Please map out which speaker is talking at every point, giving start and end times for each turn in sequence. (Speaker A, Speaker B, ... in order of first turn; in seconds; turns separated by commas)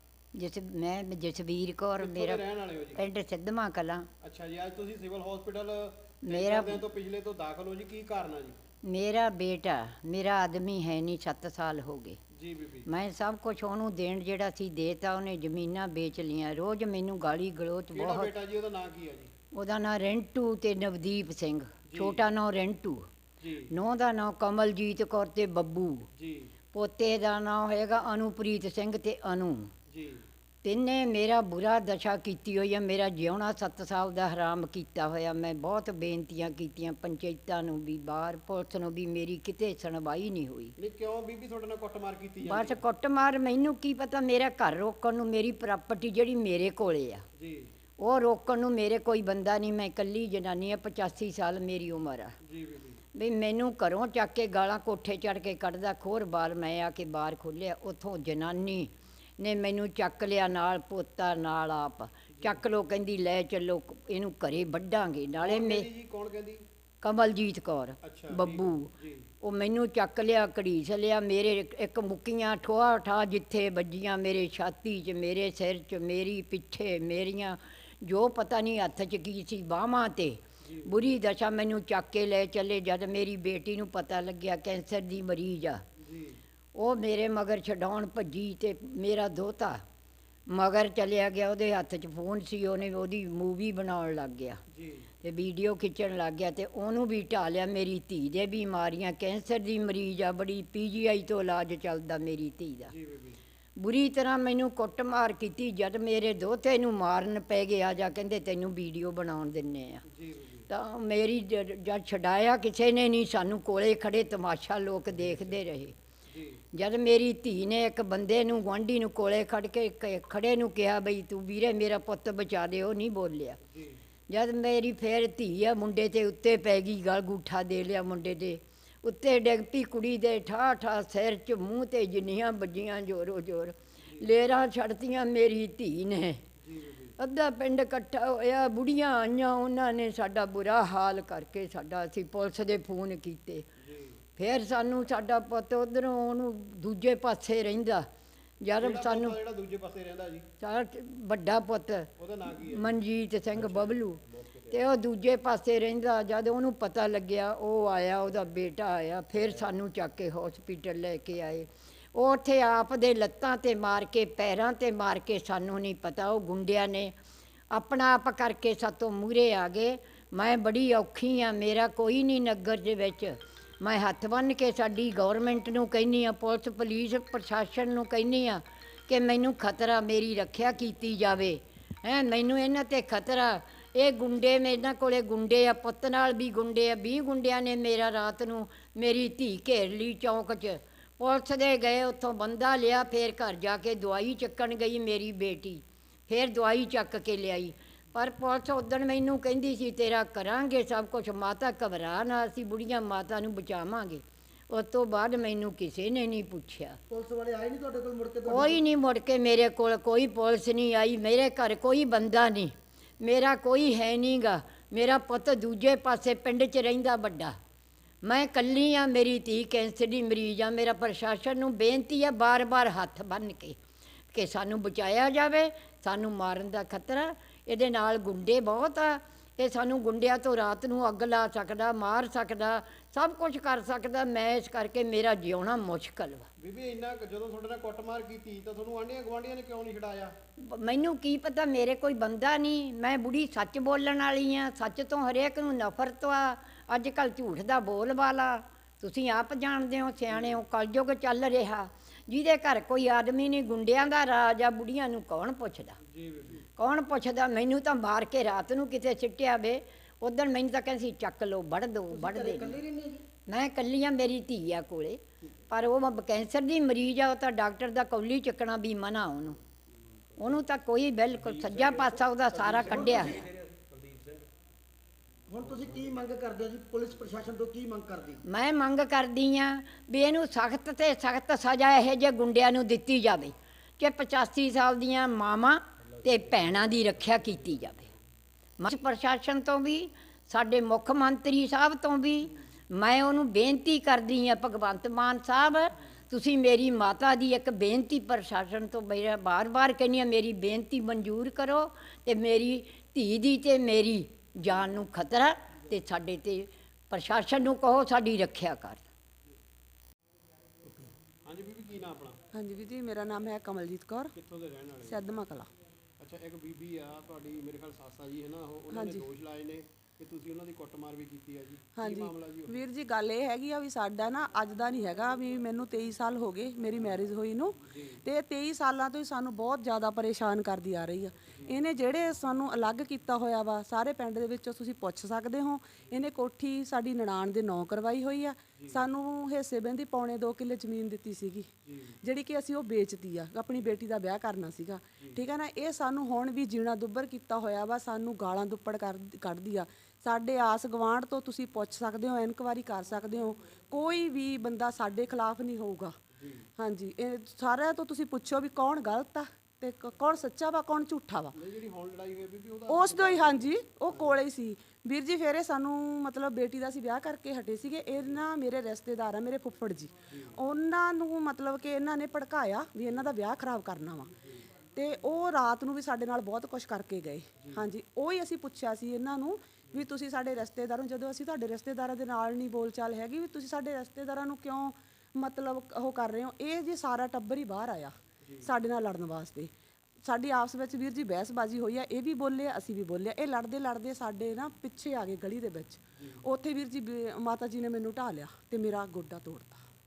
Speaker A: 0.3-2.4, Speaker B: 2.0-3.0, Speaker A: 3.0-4.1, Speaker B: 4.2-8.6, Speaker A: 6.2-6.9, Speaker A: 8.8-12.2, Speaker B: 12.3-12.9, Speaker A: 12.9-18.3, Speaker B: 17.9-19.3, Speaker A: 19.5-23.1, Speaker B: 21.9-22.3, Speaker B: 23.4-23.7, Speaker A: 23.7-26.1, Speaker B: 26.2-26.5, Speaker A: 26.7-29.7, Speaker B: 29.9-30.3, Speaker A: 30.6-40.8, Speaker B: 40.8-42.8, Speaker A: 42.4-47.2, Speaker B: 47.4-47.7, Speaker A: 48.0-52.4, Speaker B: 52.5-53.0, Speaker A: 53.1-65.9, Speaker B: 62.4-62.6, Speaker B: 65.4-66.6, Speaker A: 67.0-85.8, Speaker B: 68.0-69.3, Speaker B: 80.6-81.1, Speaker B: 86.0-86.4, Speaker A: 86.8-89.8, Speaker A: 90.5-94.6, Speaker B: 94.7-95.1, Speaker A: 95.2-102.9, Speaker B: 102.9-103.4, Speaker A: 103.8-110.0, Speaker B: 110.1-110.7, Speaker A: 110.7-116.0, Speaker B: 115.2-115.6, Speaker B: 116.3-116.6, Speaker A: 116.7-123.6, Speaker B: 123.7-124.0, Speaker A: 124.3-136.4, Speaker B: 136.6-137.2, Speaker A: 137.2-143.7, Speaker B: 143.8-144.2, Speaker A: 144.4-148.1, Speaker A: 148.6-149.4, Speaker B: 148.8-150.5, Speaker A: 150.6-152.1, Speaker B: 152.2-153.0, Speaker A: 152.7-167.2, Speaker B: 153.6-154.8, Speaker A: 167.7-207.0, Speaker C: 207.1-208.8, Speaker A: 208.4-217.6, Speaker A: 218.2-223.8, Speaker A: 224.3-236.5, Speaker B: 236.6-240.3, Speaker A: 240.6-256.0, Speaker B: 256.1-256.7, Speaker A: 256.8-262.8, Speaker C: 262.1-263.2, Speaker A: 263.5-269.6, Speaker A: 270.4-273.5, Speaker B: 271.5-272.0, Speaker B: 272.6-274.4, Speaker C: 272.7-273.5, Speaker C: 275.5-278.4, Speaker B: 275.6-276.2, Speaker A: 278.5-288.1, Speaker A: 288.8-309.1, Speaker B: 310.9-312.4, Speaker D: 312.5-314.3, Speaker B: 314.4-315.2, Speaker D: 315.1-315.7, Speaker B: 316.2-322.8, Speaker D: 318.9-319.2, Speaker D: 322.0-341.7, Speaker B: 327.9-328.2, Speaker B: 338.8-339.0, Speaker B: 341.9-342.2, Speaker D: 342.2-356.2, Speaker B: 345.2-345.4, Speaker B: 356.4-356.7, Speaker D: 356.8-361.5, Speaker B: 361.5-364.4, Speaker D: 362.9-374.3, Speaker B: 370.3-370.6, Speaker D: 374.9-389.7, Speaker B: 388.4-388.7, Speaker D: 390.2-399.9, Speaker B: 396.2-396.4